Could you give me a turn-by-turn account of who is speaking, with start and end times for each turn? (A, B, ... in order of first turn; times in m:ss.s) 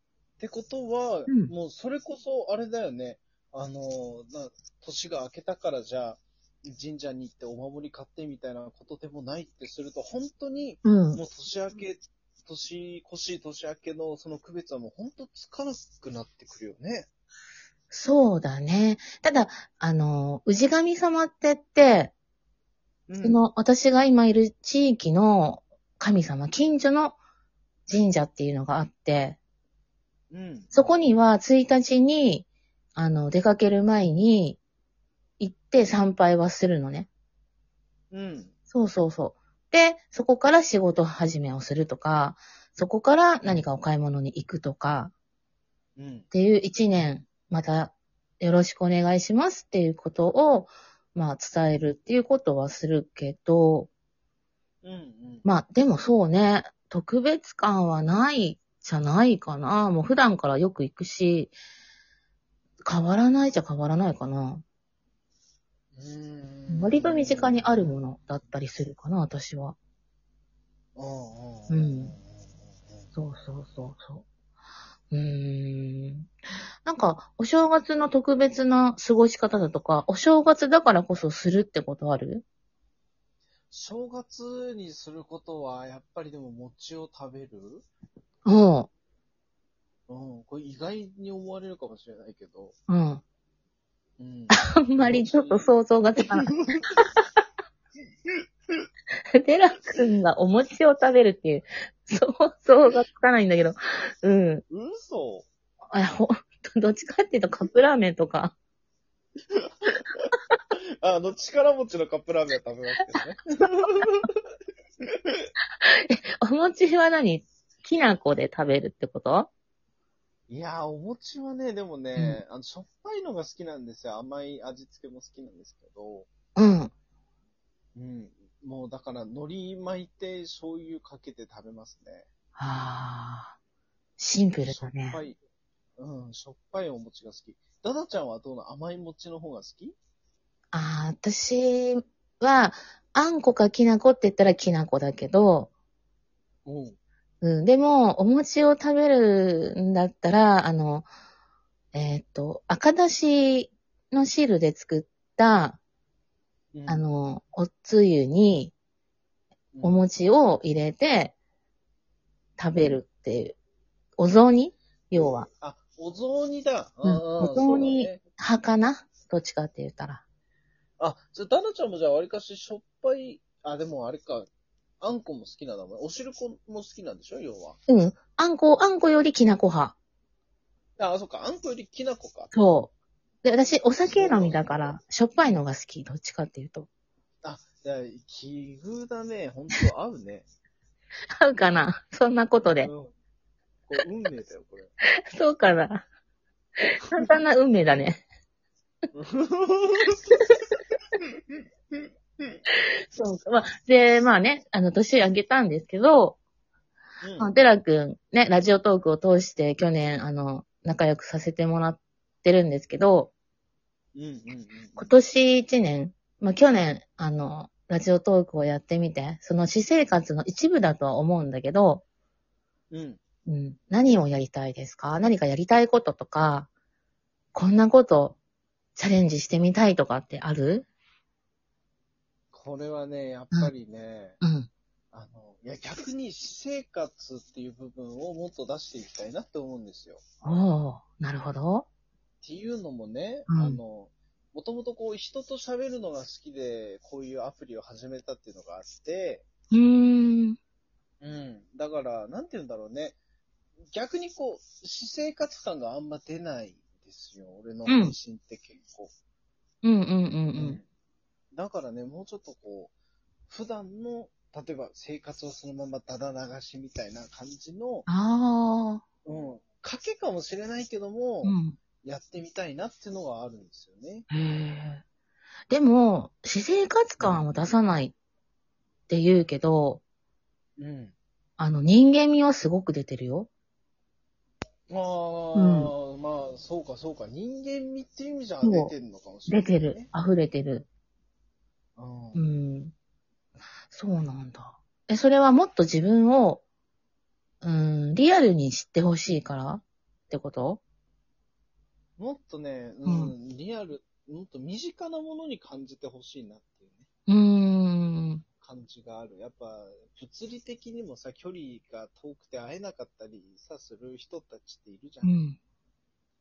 0:00.4-0:17.1 A
0:10.8-0:11.2 B
0:17.9-0:22.1 B
0:23.1-0:23.4 A
0:23.2-0:27.2 B
0:27.9-0:29.4 B
0:30.3-0:31.0 A
0:30.7-0:34.6 B
0:35.4-0:37.1 B
0:38.1-0:38.5 A
0:38.7-0:45.1 B
0:46.0-0:46.3 A
0:46.3-0:53.9 B
0:54.8-0:55.4 A
0:55.4-1:01.5 B
1:02.8-1:04.6 B
1:05.9-1:08.0 A
1:06.7-1:09.8 B
1:11.0-1:13.1 A
1:11.7-1:12.1 B
1:13.1-1:14.2 B
1:15.1-1:16.3 B
1:16.8-1:22.4 B
1:23.7-1:27.9 A
1:28.4-1:28.9 B
1:30.1-1:32.8 A
1:32.9-1:33.2 B
1:34.2-1:36.9 A
1:34.5-1:37.1 B
1:39.3-1:44.6 B
1:44.7-1:45.5 A
1:45.9-1:48.5 B
1:49.6-1:50.3 A
1:51.0-1:54.3 A
1:55.8-1:59.5 B
2:00.5-2:06.3 A
2:02.2-2:02.4 B
2:06.6-2:06.9 B
2:07.9-2:12.3 A
2:12.6-2:13.6 B
2:14.2-2:15.2 B
2:14.6-2:15.4 A
2:16.0-2:19.9 A
2:20.7-2:25.7 B
2:26.6-2:27.0 A
2:27.4-2:31.1 B
2:31.9-2:35.8 B
2:36.7-2:37.0 A
2:36.9-2:38.7 B
2:39.7-2:40.0 A
2:39.8-2:41.3 B
2:42.6-2:43.6 B
2:44.2-2:45.5 B
2:45.1-2:48.2 A
2:47.0-2:50.2 B
2:51.0-2:54.5 A
2:55.0-2:57.8 A
2:57.9-3:00.0 B
3:01.0-3:02.5 A
3:02.5-3:02.9 B
3:03.4-3:06.9 B
3:04.0-3:05.0 A
3:07.4-3:10.5 A
3:11.4-3:12.9 B
3:12.8-3:13.1 A
3:13.9-3:14.9 A
3:15.3-3:16.0 B
3:16.8-3:18.2 B
3:19.1-3:20.3 A
3:23.1-3:26.4 B
3:27.2-3:27.5 A
3:27.4-3:33.3 B
3:34.1-3:35.1 A
3:35.0-3:42.0 B
3:42.9-3:43.2 A
3:43.5-3:46.7 B
3:47.5-3:48.4 B
3:49.0-3:50.9 B
3:52.5-3:54.4 A
3:54.4-3:54.7 B
3:55.1-4:00.2 A
4:00.4-4:01.8 B
4:02.4-4:09.4 A
4:03.5-4:03.8 B
4:09.7-4:10.6 B
4:11.2-4:13.2 A
4:13.9-4:19.1 A
4:17.9-4:18.1 B
4:19.8-4:20.8 B
4:20.5-4:20.8 A
4:21.5-4:22.9 A
4:23.5-4:28.1 A
4:28.1-4:29.0 B
4:29.2-4:34.3 A
4:31.4-4:31.8 B
4:34.3-4:35.0 B
4:35.7-4:38.1 B
4:37.2-4:37.5 A
4:39.1-4:40.0 B
4:40.8-4:41.1 A
4:41.6-4:43.5 B
4:44.9-4:50.1 A
4:45.5-4:45.9 B
4:48.6-4:48.9 B
4:49.5-4:50.9 B
4:52.0-4:52.5 A
4:52.3-4:52.9 B
4:53.9-4:56.6 B
4:57.6-5:00.8 B
5:02.2-5:07.1 A
5:03.1-5:03.3 B
5:07.3-5:08.4 B
5:08.6-5:15.3 A
5:15.2-5:15.6 B